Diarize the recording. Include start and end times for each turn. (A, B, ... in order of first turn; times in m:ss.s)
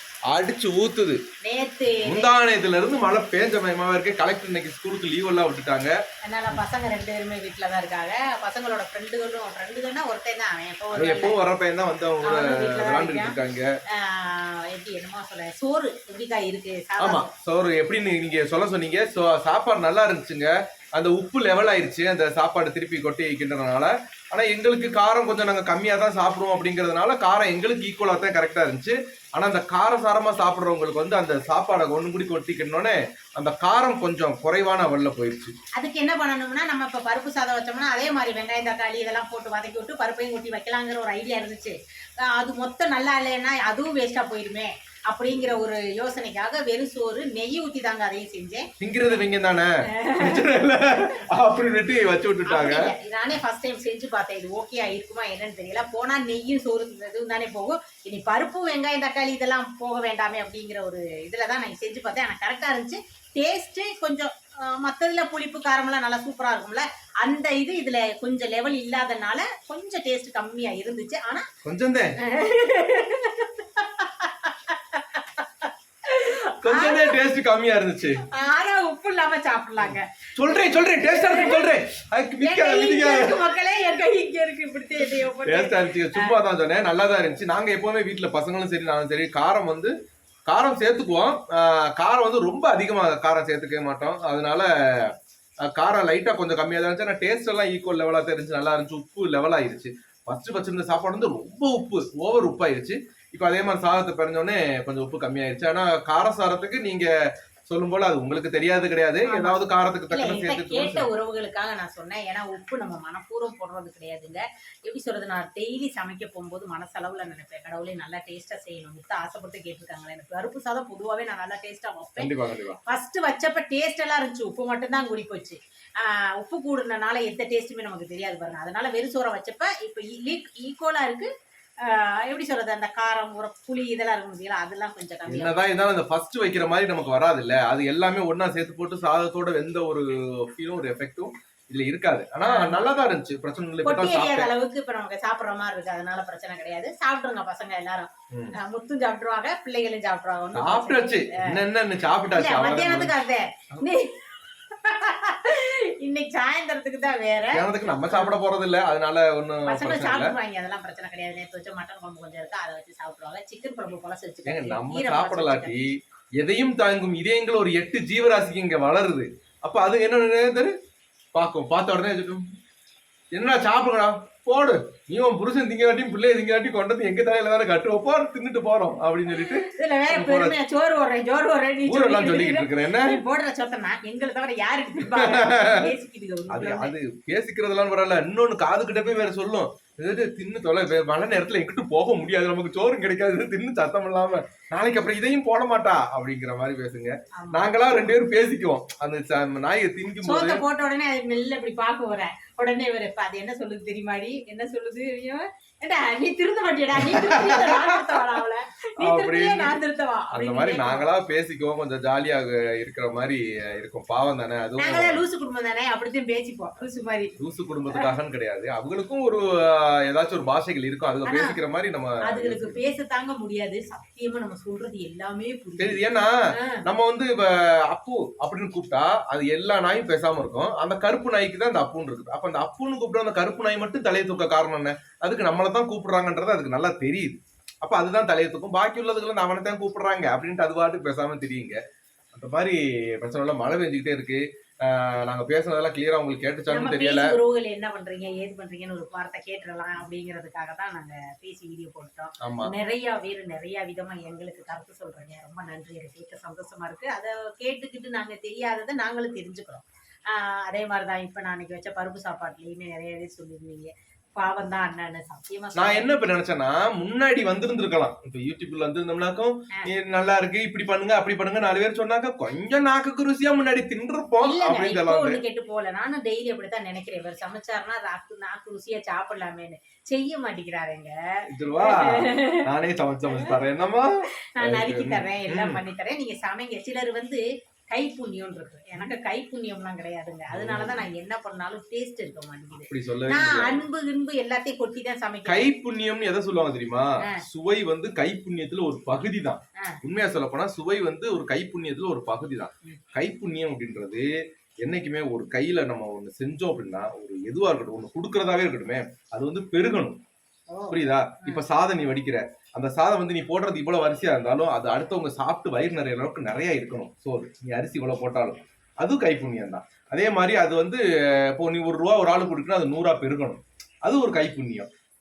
0:00.3-0:01.2 A
0:01.4-0:02.3 B
0:02.0-0:06.0 A
0:06.2-0:11.4 B
0:10.9-0:13.7 A
0:12.2-0:13.4 B
0:13.9-0:17.3 B
0:17.0-0:35.5 A
0:35.8-0:48.7 B
0:48.8-0:52.9 A
0:49.9-0:50.4 B
0:52.5-1:11.5 B
1:11.6-1:12.2 A
1:12.2-1:17.2 B
1:16.6-1:18.2 A
1:18.3-1:21.7 B
1:19.8-1:23.5 A
1:22.4-1:26.3 B
1:25.4-1:29.9 A
1:30.5-1:35.2 A
1:35.7-1:47.1 A
1:47.7-1:51.1 A
1:49.3-2:02.3 B
2:02.2-2:02.8 A
2:02.9-2:11.3 B
2:11.8-2:15.6 B
2:15.3-2:24.5 A
2:22.4-2:22.9 B
2:23.8-2:31.6 B
2:30.5-2:33.1 A
2:32.3-2:38.4 B
2:37.5-2:40.4 A
2:39.7-2:45.8 B
2:44.5-2:45.9 A
2:46.4-2:50.7 A
2:51.3-2:52.5 A
2:53.3-3:00.6 A
2:59.3-3:07.0 B
3:01.9-3:03.2 A
3:05.0-3:05.9 A
3:06.5-3:20.6 A
3:17.4-3:17.7 B
3:20.2-3:31.0 B
3:27.0-3:28.3 A
3:29.0-3:29.8 A
3:30.3-3:35.2 A
3:34.8-3:37.3 B
3:37.4-3:42.8 A
3:41.3-3:41.6 B
3:42.3-3:46.0 B
3:45.8-3:46.3 A
3:46.6-3:46.8 B
3:46.8-4:01.8 A
4:02.3-4:07.3 A
4:06.7-4:26.1 B
4:12.4-4:12.7 A
4:25.8-4:35.4 A
4:34.4-4:41.1 B
4:41.5-4:45.8 A
4:41.8-4:42.7 B
4:43.3-4:43.5 B
4:44.6-4:55.7 B
4:50.5-4:51.0 A
4:52.9-4:53.8 A
4:55.5-5:04.3 A
5:04.8-5:10.2 A
5:10.7-5:11.6 B
5:10.9-5:24.9 A